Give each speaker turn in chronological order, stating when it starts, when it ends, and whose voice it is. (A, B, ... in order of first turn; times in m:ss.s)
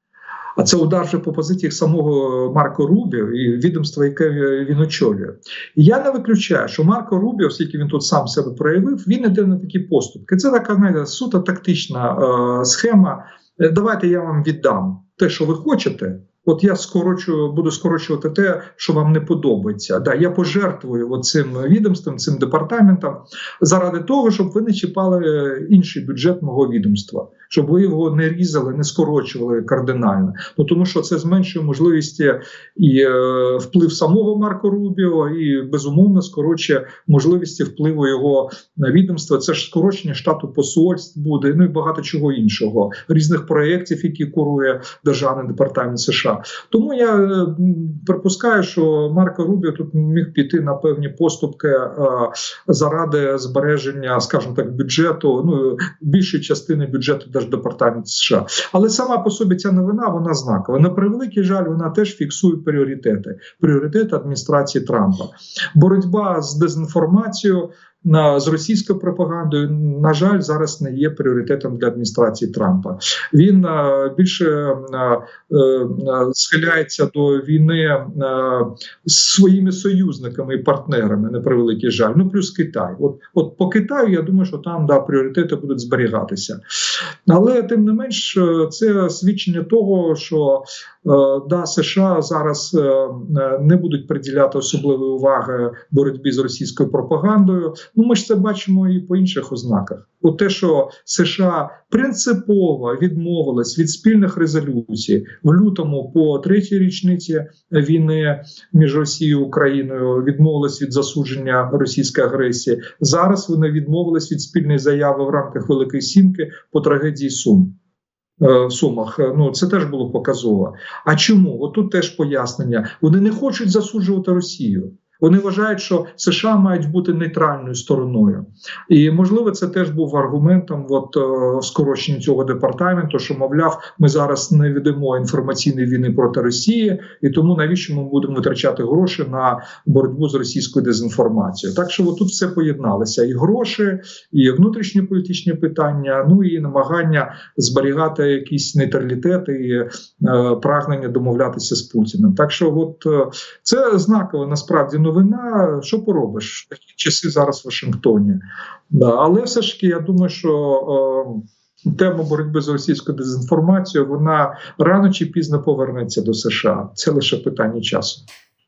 0:00.6-1:26.6 A
1:27.2-1:57.7 A
1:58.4-2:48.2 A